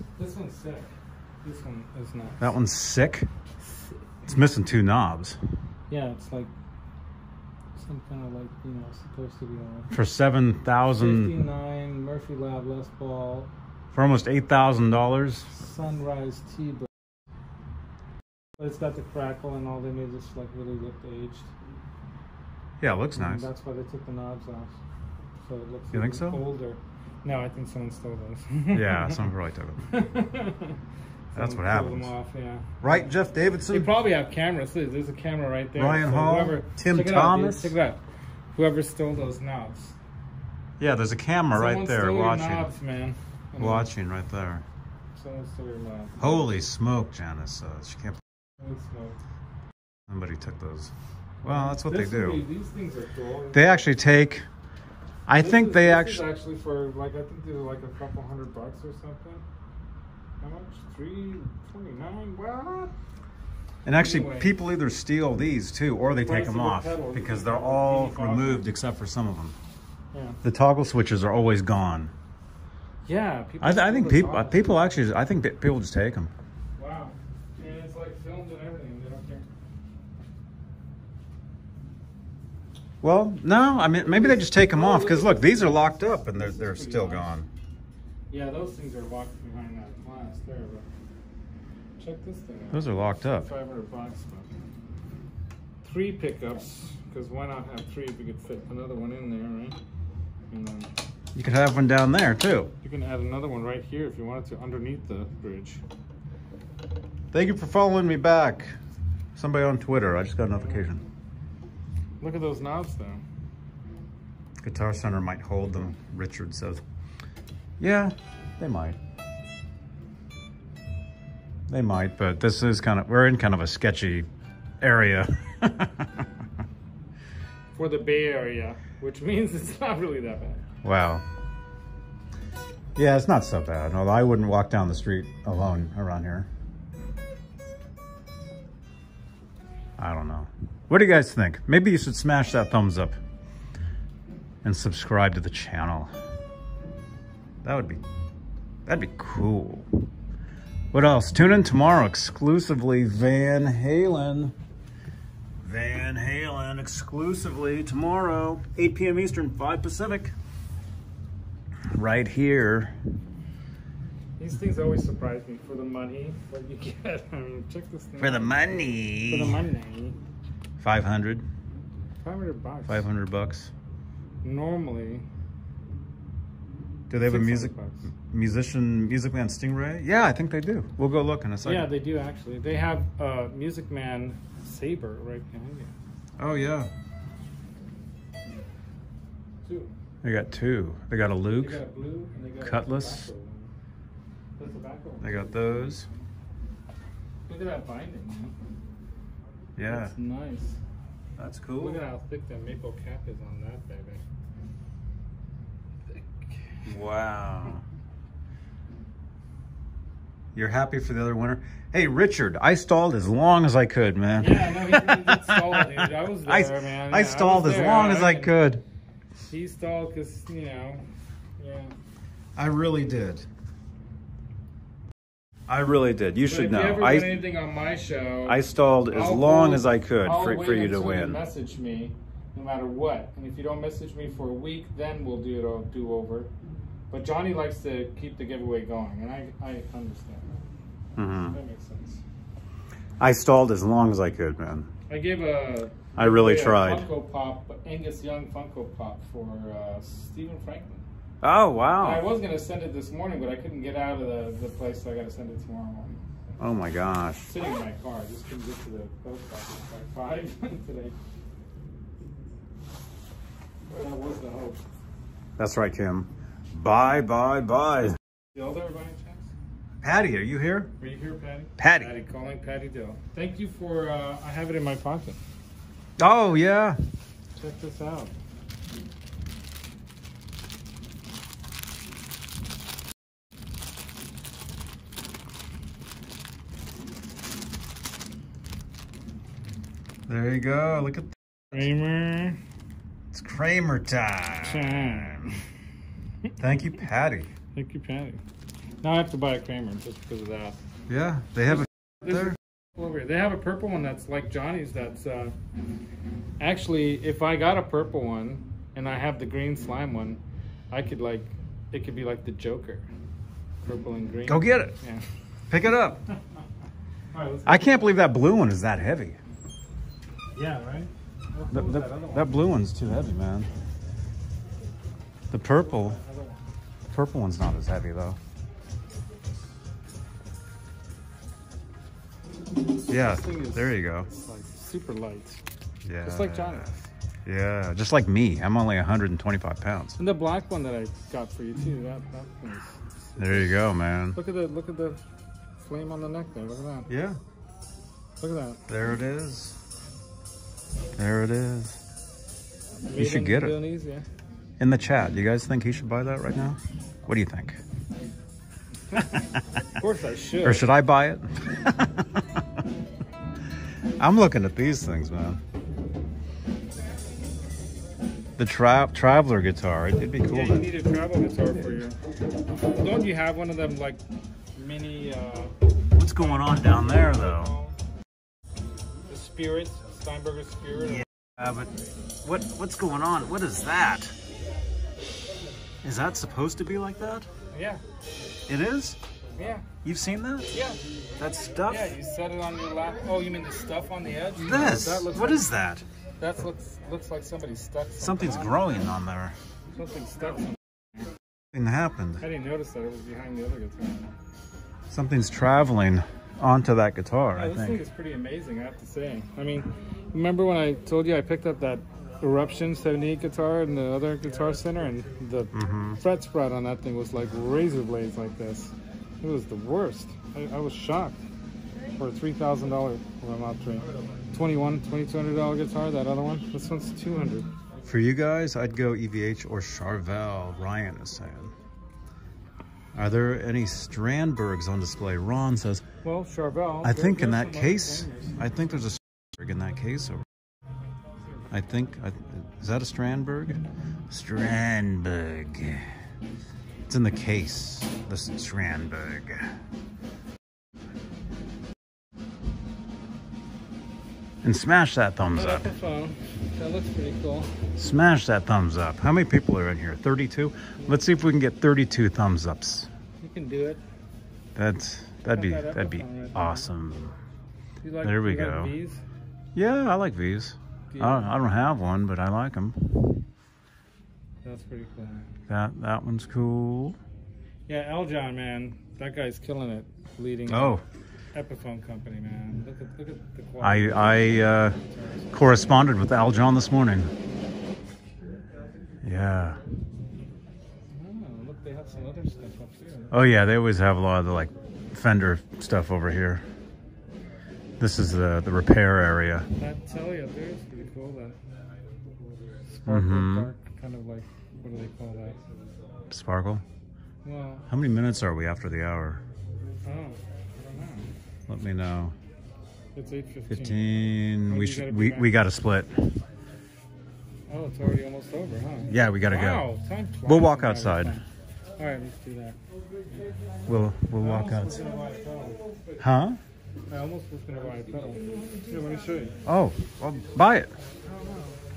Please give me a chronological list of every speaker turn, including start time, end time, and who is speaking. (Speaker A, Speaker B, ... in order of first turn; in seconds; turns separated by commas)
Speaker A: 0.2-0.9, Speaker A: 1.4-2.5, Speaker B: 2.4-3.3, Speaker B: 4.2-5.4, Speaker A: 5.9-6.5, Speaker A: 7.7-9.9, Speaker B: 9.9-11.3, Speaker A: 11.0-13.5, Speaker B: 13.9-15.5, Speaker A: 15.5-16.9, Speaker A: 18.6-21.5, Speaker B: 22.8-23.5, Speaker A: 23.1-24.7, Speaker A: 25.4-29.3, Speaker B: 25.9-26.4, Speaker B: 28.7-29.8, Speaker A: 29.9-30.8, Speaker A: 31.3-33.1, Speaker B: 31.3-32.1, Speaker B: 32.8-33.9, Speaker A: 33.7-38.0, Speaker B: 35.7-37.7, Speaker A: 38.5-40.0, Speaker B: 40.8-42.7, Speaker A: 41.5-43.9, Speaker B: 43.6-44.6, Speaker A: 45.1-46.5, Speaker B: 46.2-48.2, Speaker A: 48.6-49.2, Speaker B: 50.1-50.9, Speaker A: 51.4-53.8, Speaker B: 51.4-52.4, Speaker B: 53.5-54.5, Speaker B: 55.3-56.2, Speaker A: 55.4-59.4, Speaker A: 60.4-62.9, Speaker B: 63.8-69.5, Speaker A: 63.9-64.5, Speaker A: 66.2-68.7, Speaker A: 70.1-70.4, Speaker B: 70.4-72.1, Speaker A: 73.0-74.9, Speaker B: 73.6-76.3, Speaker A: 76.8-79.4, Speaker B: 83.0-87.5, Speaker A: 84.0-87.3, Speaker A: 88.3-90.8, Speaker A: 92.0-94.5, Speaker B: 92.7-93.5, Speaker A: 95.8-99.8, Speaker A: 100.5-100.9, Speaker B: 101.3-102.7, Speaker A: 102.8-105.8, Speaker B: 107.3-108.8, Speaker B: 109.3-111.0, Speaker A: 110.5-110.8, Speaker A: 112.2-113.2, Speaker B: 114.6-116.8, Speaker B: 117.8-119.0, Speaker B: 121.7-124.3, Speaker B: 124.8-126.3, Speaker A: 127.7-130.6, Speaker B: 130.8-131.2, Speaker B: 132.9-136.5, Speaker B: 140.0-143.2, Speaker B: 144.6-146.1, Speaker B: 147.6-148.0, Speaker B: 148.8-149.9, Speaker B: 150.9-154.5, Speaker B: 155.6-160.3, Speaker B: 161.9-162.9, Speaker A: 164.4-170.2, Speaker B: 168.2-169.6, Speaker B: 170.8-171.4, Speaker A: 172.2-173.0, Speaker B: 172.9-173.7, Speaker A: 174.4-175.2, Speaker B: 177.1-181.9, Speaker A: 177.2-178.1, Speaker A: 181.6-185.9, Speaker B: 186.4-186.9, Speaker A: 189.6-190.0, Speaker B: 190.2-191.8, Speaker A: 191.6-193.7, Speaker B: 192.6-193.3, Speaker A: 194.6-196.2, Speaker B: 195.2-196.1, Speaker A: 197.5-198.5, Speaker B: 199.8-200.1, Speaker A: 199.8-200.8, Speaker B: 201.4-202.0, Speaker A: 201.8-204.2, Speaker A: 206.1-206.9, Speaker B: 206.8-207.8, Speaker B: 210.5-218.8, Speaker A: 214.4-218.5, Speaker A: 219.5-221.0, Speaker A: 221.6-221.9, Speaker B: 222.6-223.5, Speaker B: 225.7-227.4, Speaker A: 226.4-236.5, Speaker B: 228.4-231.4, Speaker A: 237.1-240.6, Speaker B: 241.2-241.6, Speaker A: 241.4-242.2, Speaker B: 243.2-244.9, Speaker A: 245.1-251.0, Speaker B: 246.1-247.1, Speaker B: 251.4-252.2, Speaker A: 252.0-256.2, Speaker B: 256.6-257.5, Speaker A: 257.5-261.1, Speaker A: 263.9-264.8, Speaker B: 265.6-268.2, Speaker A: 268.5-269.5, Speaker B: 270.0-270.9, Speaker A: 271.0-275.4, Speaker B: 271.8-272.1, Speaker B: 276.2-277.0, Speaker A: 277.6-278.3, Speaker B: 290.3-291.8, Speaker A: 291.7-292.6, Speaker B: 293.3-295.6, Speaker A: 294.6-295.5, Speaker B: 296.6-297.5, Speaker A: 297.7-298.4, Speaker A: 299.0-300.8, Speaker B: 301.1-302.6, Speaker A: 302.2-305.5, Speaker A: 306.6-310.4, Speaker A: 310.9-313.1, Speaker A: 313.8-315.2, Speaker B: 314.5-314.9, Speaker B: 315.7-316.2, Speaker A: 317.3-318.1, Speaker B: 317.6-319.4, Speaker A: 320.5-322.7, Speaker B: 321.7-323.7, Speaker B: 325.5-326.2, Speaker A: 325.7-326.6, Speaker B: 327.1-328.4, Speaker A: 333.1-335.6, Speaker B: 333.1-334.3, Speaker B: 336.0-336.9, Speaker A: 336.2-337.0, Speaker B: 337.4-340.2, Speaker A: 340.2-343.7, Speaker B: 343.4-344.4, Speaker A: 344.3-345.2, Speaker A: 345.8-347.1, Speaker B: 347.1-347.4, Speaker A: 348.4-348.8, Speaker B: 348.9-349.8, Speaker B: 351.1-352.0, Speaker A: 353.0-354.2, Speaker B: 353.1-353.8, Speaker B: 354.8-357.8, Speaker A: 359.1-360.9, Speaker B: 360.6-362.4, Speaker B: 364.2-365.6, Speaker B: 368.6-370.9, Speaker A: 370.4-372.2, Speaker A: 372.9-374.2, Speaker A: 374.8-375.7, Speaker B: 376.1-377.7, Speaker A: 376.4-378.0, Speaker A: 379.3-381.2, Speaker B: 381.1-384.3, Speaker B: 386.0-387.5, Speaker A: 387.7-388.0, Speaker B: 388.7-389.2, Speaker A: 389.6-389.9, Speaker B: 390.0-390.7, Speaker A: 390.7-391.0, Speaker B: 391.4-392.1, Speaker A: 391.9-395.7, Speaker B: 394.6-396.0, Speaker A: 396.4-398.9, Speaker B: 398.2-399.5, Speaker A: 399.9-401.2, Speaker B: 401.7-402.4, Speaker A: 402.4-404.3, Speaker B: 405.1-408.0, Speaker A: 407.5-421.4, Speaker B: 415.7-416.2, Speaker A: 422.2-427.7, Speaker B: 428.0-431.7, Speaker B: 433.1-436.0, Speaker A: 436.2-438.6, Speaker B: 437.0-440.4, Speaker B: 441.7-446.1, Speaker B: 447.1-449.7, Speaker B: 454.6-455.9, Speaker A: 455.5-457.7, Speaker B: 457.9-463.1, Speaker A: 463.4-464.0, Speaker B: 464.8-467.3, Speaker A: 465.5-466.9, Speaker A: 468.0-469.2, Speaker B: 468.2-468.9, Speaker B: 469.7-473.1, Speaker A: 471.1-471.5, Speaker A: 474.6-475.5, Speaker B: 475.7-477.2, Speaker A: 477.9-481.0, Speaker B: 480.7-481.0, Speaker A: 481.5-485.7, Speaker B: 483.8-485.0, Speaker B: 485.5-487.3, Speaker B: 489.2-489.8, Speaker A: 491.1-493.3, Speaker B: 493.3-496.6, Speaker B: 498.0-499.7, Speaker A: 499.8-501.6, Speaker A: 502.9-505.6, Speaker B: 503.1-503.7, Speaker B: 506.3-506.8, Speaker A: 507.4-507.9, Speaker B: 507.9-509.4, Speaker A: 510.0-511.3, Speaker B: 511.7-512.3, Speaker A: 513.1-514.1, Speaker B: 513.7-516.1, Speaker A: 514.7-515.5, Speaker A: 517.7-521.4, Speaker B: 519.1-519.9, Speaker B: 520.5-521.4, Speaker A: 522.0-522.8, Speaker B: 523.9-525.0, Speaker A: 524.3-525.9, Speaker B: 526.2-526.6, Speaker A: 527.1-529.5, Speaker B: 529.6-530.9, Speaker A: 531.2-531.8